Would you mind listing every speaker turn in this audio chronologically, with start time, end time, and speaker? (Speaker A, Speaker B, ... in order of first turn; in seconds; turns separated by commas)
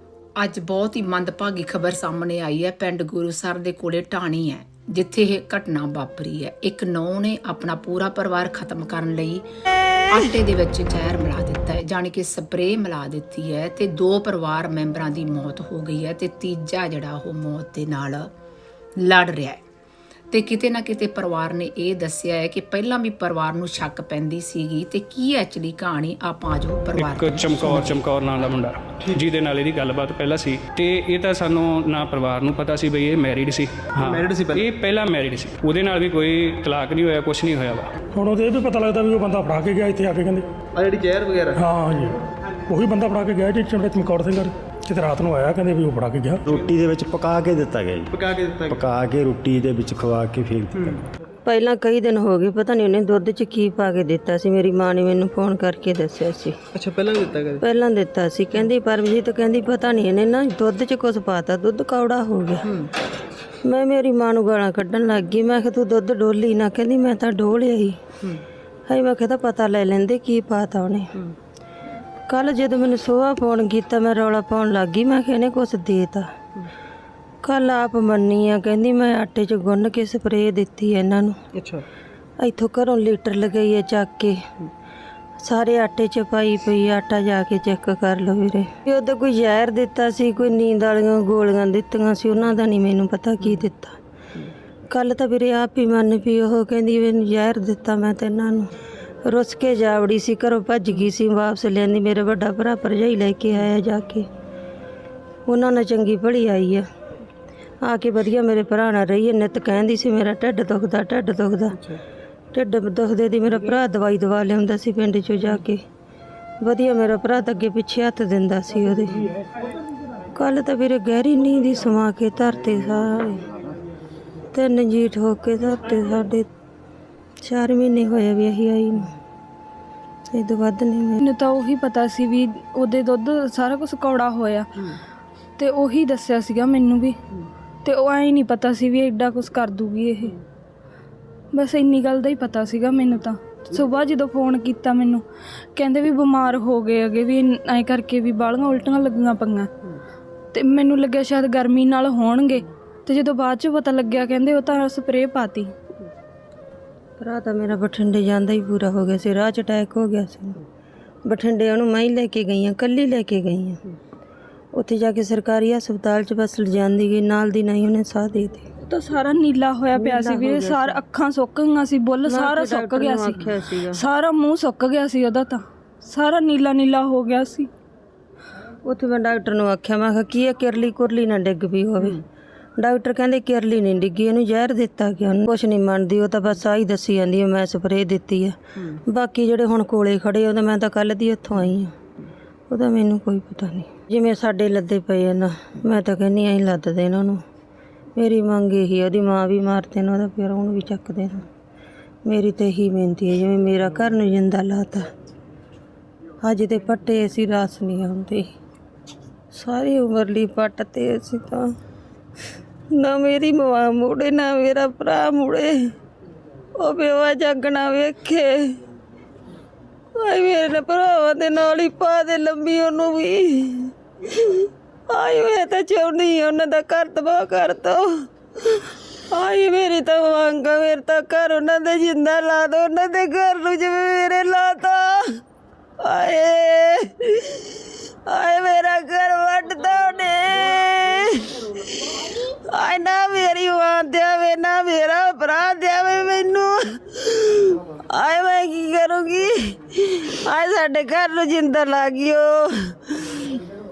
Speaker A: 0.4-9.4, Speaker A: 10.1-18.3, Speaker A: 19.0-19.6, Speaker A: 20.3-28.0, Speaker B: 27.0-37.9, Speaker C: 34.0-34.6, Speaker D: 38.1-40.5, Speaker C: 40.8-41.6, Speaker D: 41.5-42.2, Speaker D: 42.7-46.4, Speaker E: 46.5-51.0, Speaker C: 48.2-48.8, Speaker F: 51.4-56.5, Speaker C: 56.7-57.6, Speaker F: 57.6-62.7, Speaker F: 63.6-68.0, Speaker F: 68.9-71.1, Speaker F: 72.3-76.3, Speaker F: 77.4-81.3, Speaker C: 81.5-81.8, Speaker F: 82.4-84.4, Speaker F: 85.4-94.0, Speaker F: 94.9-98.7, Speaker F: 99.2-104.3, Speaker F: 105.5-106.8, Speaker F: 107.8-111.9, Speaker F: 112.5-115.8, Speaker F: 116.6-119.3, Speaker F: 120.3-123.4, Speaker F: 124.5-126.5, Speaker F: 127.4-129.1, Speaker F: 130.3-131.2, Speaker G: 131.2-134.8, Speaker G: 135.6-137.2, Speaker G: 137.8-140.4, Speaker G: 141.5-145.2, Speaker G: 145.8-149.7, Speaker G: 150.5-155.7, Speaker F: 157.2-160.6, Speaker F: 161.2-163.8, Speaker F: 164.7-168.7, Speaker G: 168.8-177.7, Speaker F: 169.9-171.0, Speaker F: 172.2-174.0, Speaker F: 178.8-182.2, Speaker F: 182.8-191.9, Speaker F: 192.7-197.4, Speaker F: 198.2-201.5, Speaker F: 202.2-205.1, Speaker F: 206.4-208.5, Speaker F: 209.5-211.7, Speaker F: 212.9-215.8, Speaker F: 216.8-218.8, Speaker F: 220.2-235.4, Speaker F: 236.0-253.5